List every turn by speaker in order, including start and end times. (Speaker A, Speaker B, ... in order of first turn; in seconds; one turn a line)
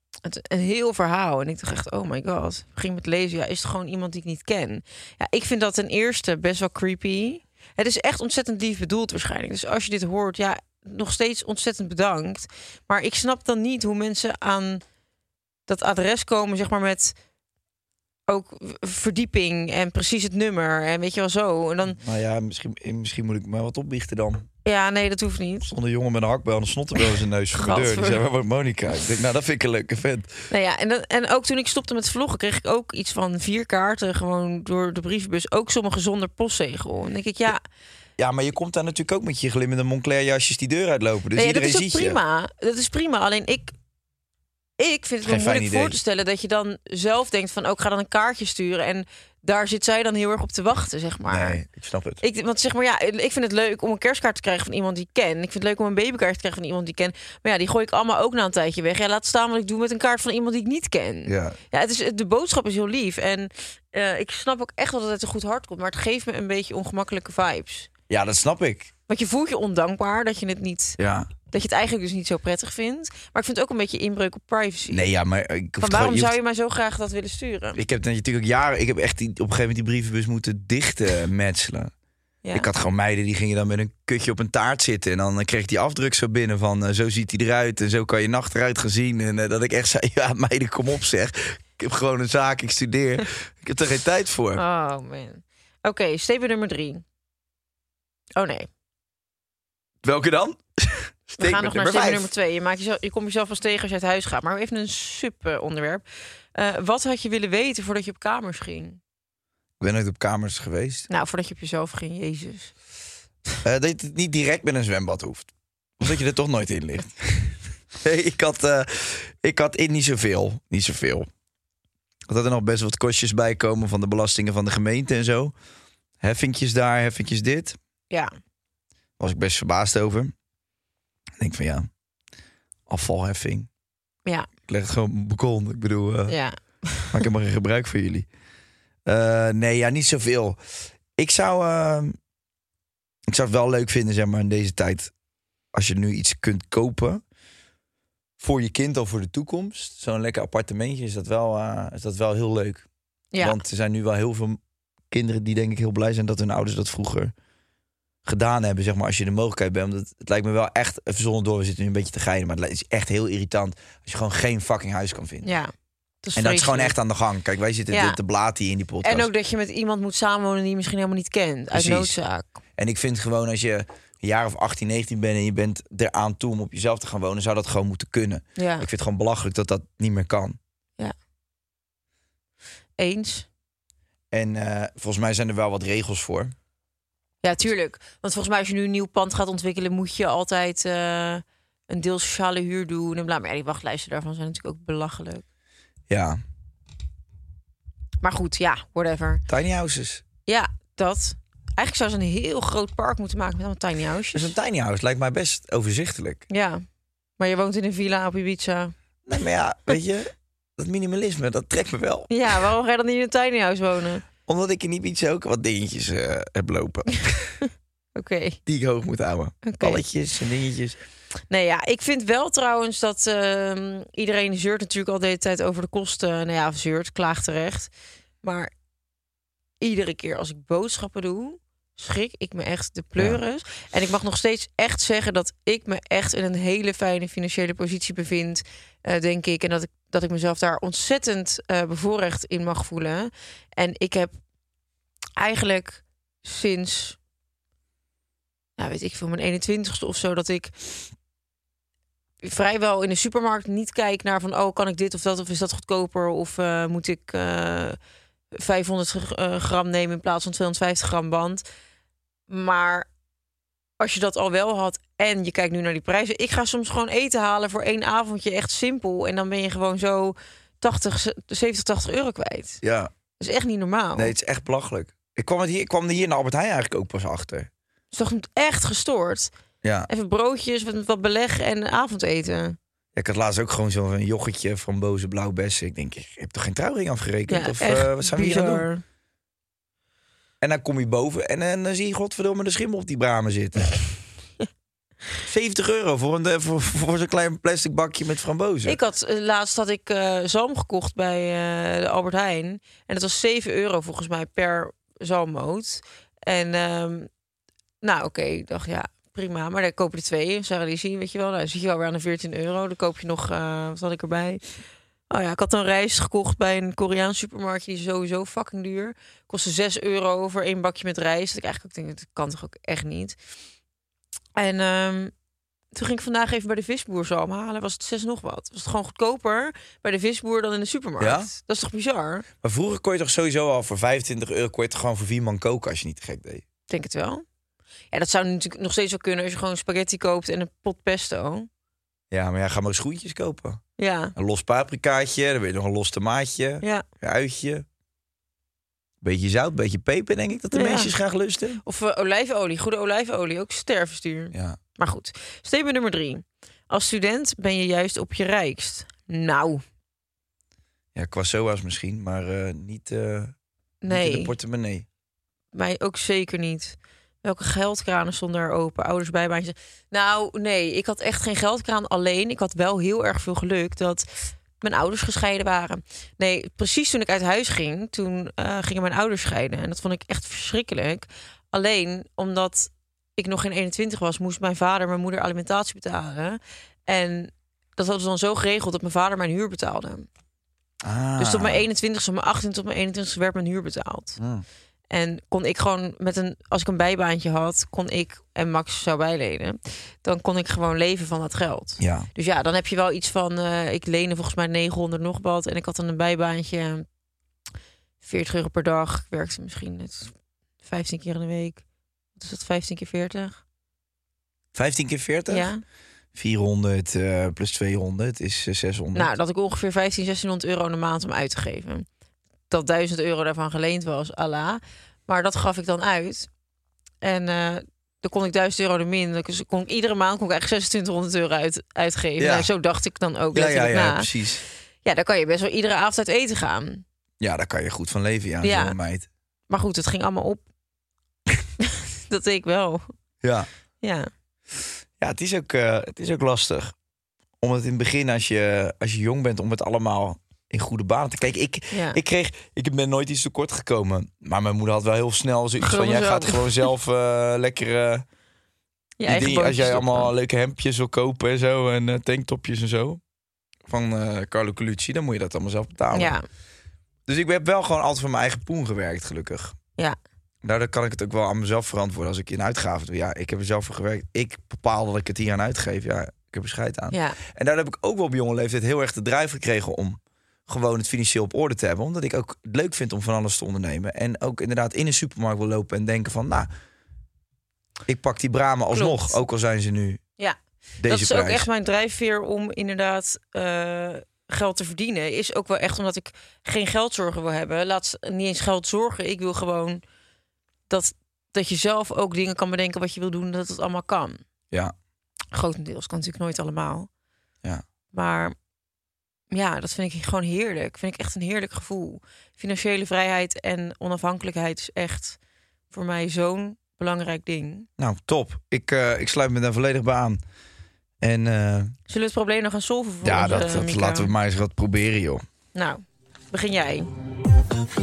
Speaker A: 0.2-14.8
Speaker A: 15.7-17.1
Speaker A: 18.3-22.0
Speaker B: 21.8-24.5
Speaker A: 24.6-25.7
Speaker B: 25.6-30.4
Speaker A: 27.5-28.2
Speaker A: 30.5-37.6
Speaker B: 38.2-42.2
Speaker A: 41.3-43.7
Speaker A: 44.8-51.6
Speaker B: 45.2-46.0
Speaker B: 51.3-52.2
Speaker A: 52.2-67.9
Speaker B: 61.3-61.6
Speaker B: 68.1-68.9
Speaker A: 69.1-71.0
Speaker B: 71.0-71.3
Speaker A: 71.5-75.0
Speaker B: 74.9-76.4
Speaker A: 75.8-77.8
Speaker B: 77.7-81.9
Speaker A: 82.4-82.7
Speaker B: 82.5-94.6
Speaker A: 94.5-97.0
Speaker A: 98.3-98.7
Speaker B: 100.0-102.3
Speaker A: 101.4-106.0
Speaker A: 106.5-109.0
Speaker B: 109.8-111.1
Speaker A: 111.1-112.7
Speaker B: 113.6-121.3
Speaker B: 122.3-125.5
Speaker B: 126.2-127.8
Speaker B: 129.2-130.3
Speaker B: 131.4-131.9
Speaker B: 132.9-133.7
Speaker B: 134.7-136.3
Speaker A: 136.3-137.2
Speaker B: 137.1-138.3
Speaker B: 139.1-140.6
Speaker B: 141.2-142.2
Speaker B: 143.3-145.1
Speaker B: 145.7-147.2
Speaker B: 148.4-152.8
Speaker A: 153.3-153.6
Speaker B: 153.4-154.6
Speaker B: 155.1-157.3
Speaker B: 158.2-165.5
Speaker A: 165.4-165.7
Speaker A: 166.2-166.9
Speaker B: 166.3-169.3
Speaker A: 167.9-168.2
Speaker A: 169.0-172.5
Speaker B: 171.7-172.2
Speaker B: 172.8-180.6
Speaker A: 178.6-178.9
Speaker A: 183.0-183.5
Speaker B: 184.3-186.5
Speaker A: 187.4-195.4
Speaker B: 196.1-196.4
Speaker A: 198.2-199.4
Speaker B: 199.5-200.2
Speaker A: 200.4-204.5
Speaker B: 204.3-206.4
Speaker A: 206.5-206.8
Speaker A: 207.4-208.9
Speaker B: 209.2-212.3
Speaker A: 212.3-214.2
Speaker B: 214.4-217.6
Speaker A: 218.2-218.6
Speaker B: 218.7-221.0
Speaker A: 219.6-220.0
Speaker A: 221.5-227.9
Speaker A: 228.4-228.7
Speaker A: 229.8-244.3
Speaker A: 245.4-247.2
Speaker A: 248.8-250.7
Speaker A: 252.4-258.0
Speaker A: 258.6-261.6
Speaker A: 262.5-263.1
Speaker A: 264.0-272.8
Speaker B: 272.8-273.1
Speaker A: 273.4-274.3
Speaker B: 274.1-277.7
Speaker A: 278.1-279.5
Speaker B: 279.8-280.1
Speaker A: 280.1-282.8
Speaker B: 283.1-288.9
Speaker A: 287.5-289.0
Speaker B: 290.6-293.9
Speaker B: 295.4-299.0
Speaker A: 298.8-307.3
Speaker A: 308.0-314.6
Speaker A: 315.3-323.4
Speaker A: 324.6-325.3
Speaker A: 325.9-332.4
Speaker B: 331.2-331.5
Speaker B: 332.6-336.6
Speaker A: 336.9-337.4
Speaker A: 338.1-341.7
Speaker B: 342.3-343.8
Speaker A: 344.0-344.3
Speaker B: 344.4-347.9
Speaker B: 349.2-351.8
Speaker A: 350.7-351.1
Speaker A: 351.8-359.8
Speaker B: 354.5-354.8
Speaker B: 361.1-363.5
Speaker A: 364.0-364.5
Speaker B: 364.1-365.1
Speaker A: 365.7-374.3
Speaker A: 374.8-390.3
Speaker B: 391.0-391.8
Speaker A: 391.4-394.4
Speaker B: 394.4-394.6
Speaker A: 395.1-407.1
Speaker B: 402.0-402.3
Speaker A: 408.2-411.8
Speaker A: 412.4-413.6
Speaker B: 414.7-415.7
Speaker A: 415.5-415.8
Speaker B: 416.3-419.3
Speaker A: 419.1-422.1
Speaker A: 422.7-426.5
Speaker A: 427.2-434.3
Speaker B: 432.4-432.7
Speaker B: 433.5-434.6
Speaker A: 435.0-437.0
Speaker B: 437.4-439.3
Speaker A: 438.6-438.9
Speaker A: 439.7-440.6
Speaker A: 441.8-443.0
Speaker B: 443.4-443.7
Speaker A: 444.0-444.3
Speaker B: 445.2-446.9
Speaker B: 447.6-458.2
Speaker A: 451.9-452.2
Speaker A: 455.8-456.9
Speaker A: 459.2-460.3
Speaker B: 459.2-463.2
Speaker B: 463.9-466.3
Speaker A: 466.1-466.4
Speaker B: 467.3-469.8
Speaker B: 470.6-486.7
Speaker A: 477.1-477.4
Speaker B: 488.1-490.2
Speaker A: 488.9-489.4
Speaker A: 490.4-500.0
Speaker B: 491.0-491.7
Speaker A: 500.9-504.4
Speaker A: 505.5-507.1
Speaker A: 508.1-508.5
Speaker A: 509.5-515.4
Speaker A: 515.9-517.9
Speaker B: 518.0-520.4
Speaker B: 521.2-521.9
Speaker A: 522.1-524.3
Speaker B: 523.2-525.4
Speaker A: 525.7-527.1